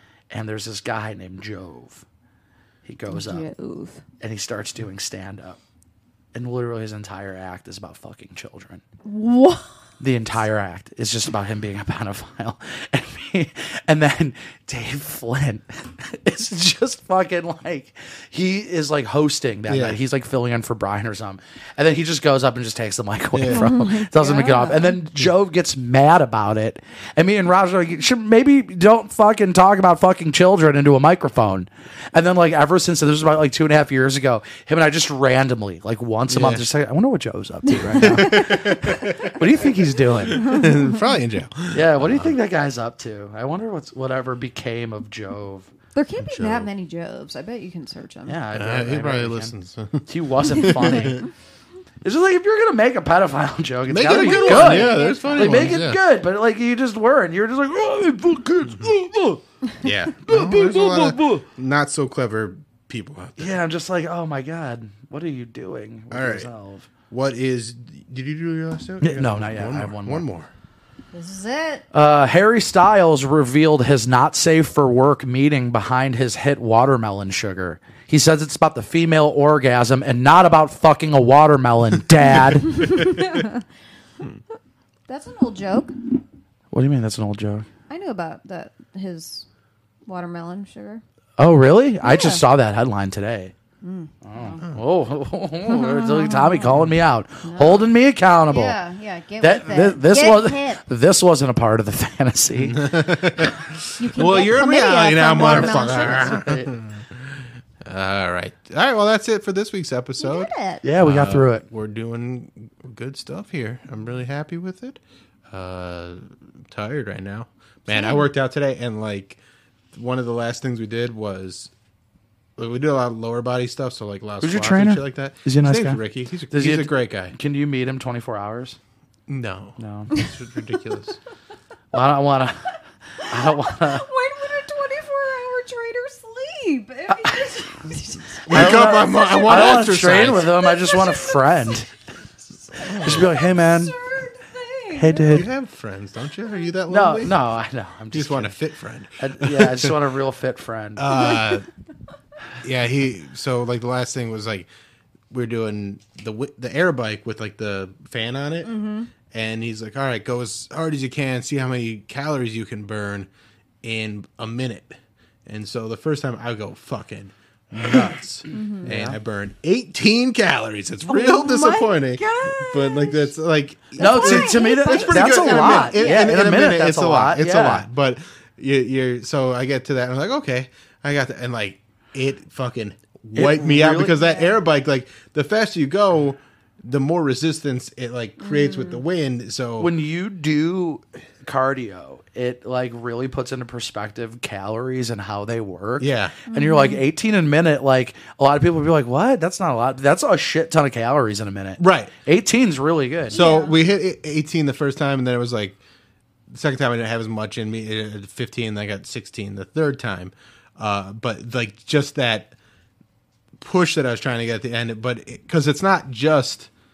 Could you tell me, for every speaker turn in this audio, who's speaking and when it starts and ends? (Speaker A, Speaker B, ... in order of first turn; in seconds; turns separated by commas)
Speaker A: 0.3-2.0, Speaker A: 2.8-3.5, Speaker B: 3.1-4.0, Speaker A: 4.2-5.6, Speaker A: 6.3-8.8, Speaker B: 9.0-9.7, Speaker A: 10.0-40.7, Speaker C: 19.7-20.0, Speaker C: 23.3-23.7, Speaker B: 23.5-25.0, Speaker C: 36.3-36.6, Speaker B: 37.8-38.4, Speaker C: 37.9-42.4, Speaker A: 41.7-45.7, Speaker B: 45.9-48.4, Speaker C: 46.2-46.7, Speaker A: 48.2-49.5, Speaker C: 48.5-51.2, Speaker A: 50.1-51.3, Speaker B: 50.6-51.2, Speaker A: 52.0-59.4, Speaker C: 53.9-56.0, Speaker B: 54.0-55.8, Speaker C: 59.8-63.6, Speaker A: 60.2-61.4, Speaker A: 63.4-66.9, Speaker C: 66.1-66.5, Speaker C: 67.1-70.5, Speaker A: 69.0-70.2, Speaker B: 71.1-71.8, Speaker A: 71.9-83.2, Speaker B: 82.8-83.5, Speaker B: 85.1-86.0, Speaker A: 86.7-87.7, Speaker B: 87.9-89.5, Speaker B: 90.0-91.0, Speaker A: 91.4-93.5, Speaker B: 92.0-92.4, Speaker B: 93.8-94.6, Speaker A: 94.2-98.8, Speaker B: 95.6-96.8, Speaker B: 97.4-97.9, Speaker B: 98.5-100.8, Speaker A: 99.4-103.0, Speaker C: 102.6-119.4, Speaker B: 104.0-106.5, Speaker A: 105.4-106.7, Speaker B: 110.2-110.8, Speaker A: 110.8-111.6, Speaker B: 117.9-118.3, Speaker C: 119.9-121.7, Speaker C: 122.6-127.3, Speaker A: 124.4-128.8, Speaker C: 129.3-131.2, Speaker A: 129.8-130.2, Speaker A: 131.9-134.1, Speaker B: 133.3-139.9, Speaker C: 138.5-140.6, Speaker A: 138.5-141.9, Speaker B: 140.4-141.8, Speaker B: 142.7-145.5, Speaker C: 142.8-143.3, Speaker A: 143.0-143.9, Speaker A: 144.9-145.5, Speaker C: 145.3-147.4, Speaker A: 146.9-148.5, Speaker C: 148.1-149.9, Speaker A: 149.2-151.3, Speaker C: 150.9-151.7, Speaker C: 152.6-154.7, Speaker C: 155.3-158.7, Speaker B: 158.6-159.1, Speaker C: 159.3-163.3, Speaker C: 163.8-189.9, Speaker A: 167.7-169.2, Speaker B: 168.5-168.9, Speaker B: 171.1-173.3, Speaker B: 173.9-176.3, Speaker A: 174.0-177.8, Speaker A: 183.3-184.2, Speaker B: 184.2-184.5, Speaker B: 188.4-189.0, Speaker A: 189.8-203.4, Speaker C: 196.0-196.4, Speaker B: 196.5-197.0, Speaker C: 201.8-202.1, Speaker B: 203.3-203.8, Speaker C: 203.3-205.8, Speaker C: 206.5-212.5, Speaker C: 213.6-216.7